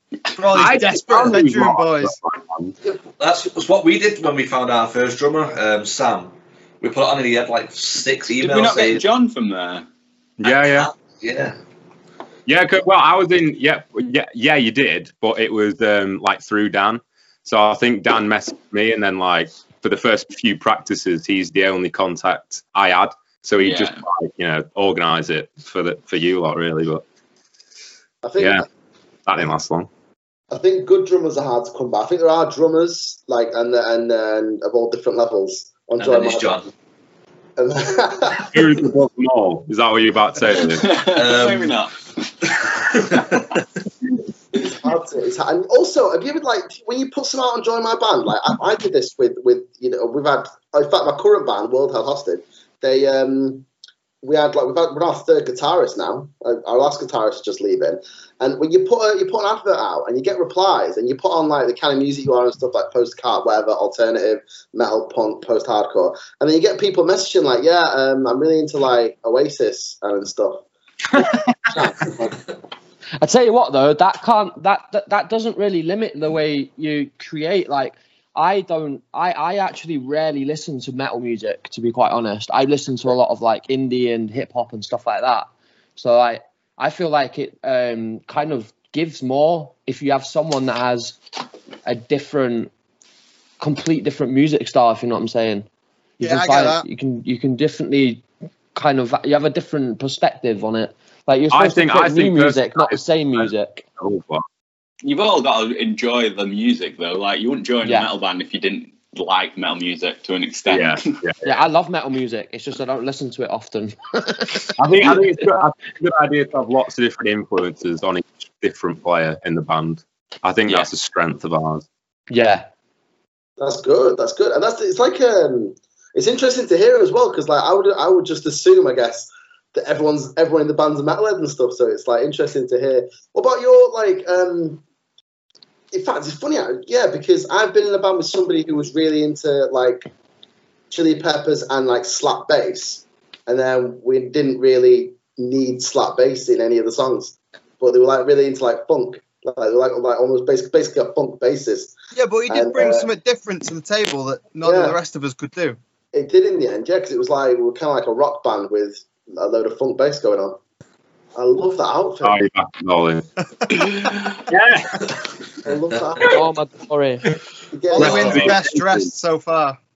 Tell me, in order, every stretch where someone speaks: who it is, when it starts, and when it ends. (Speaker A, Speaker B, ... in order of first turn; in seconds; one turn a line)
Speaker A: 0.4-2.2
Speaker B: 0.5-2.7
Speaker C: 3.2-9.1
Speaker D: 8.4-9.9
Speaker B: 10.4-10.9
Speaker C: 10.4-11.6
Speaker B: 12.4-27.0
Speaker D: 23.6-24.0
Speaker E: 28.2-28.6
Speaker B: 28.4-28.6
Speaker B: 29.2-29.9
Speaker E: 30.5-36.7
Speaker C: 36.0-36.7
Speaker E: 37.6-38.6
Speaker B: 38.5-40.8
Speaker D: 40.5-42.0
Speaker C: 41.1-41.8
Speaker C: 42.6-43.6
Speaker E: 44.6-53.6
Speaker E: 54.2-70.6
Speaker E: 71.7-72.4
Speaker F: 73.2-91.2
Speaker F: 91.8-92.7
Speaker F: 93.6-95.7
Speaker F: 96.2-98.2
Speaker A: 96.2-96.9
Speaker F: 98.7-103.8
Speaker B: 101.5-104.4
Speaker D: 105.0-111.2
Speaker F: 107.8-108.1
Speaker B: 110.7-111.5
Speaker F: 111.4-115.4
Speaker B: 114.8-121.8
Speaker F: 122.3-122.6
Speaker E: 123.6-134.8
Speaker E: 135.9-140.1
Speaker E: 140.9-151.9
Speaker A: 152.1-155.8
Speaker E: 152.5-153.1
Speaker E: 154.6-155.0
Speaker E: 156.1-160.6
Speaker E: 161.3-162.3
Speaker B: 162.2-165.1
Speaker E: 165.6-166.4
Speaker F: 166.3-167.3
Speaker E: 167.7-168.5
Speaker A: 167.9-169.8
Speaker B: 168.0-169.1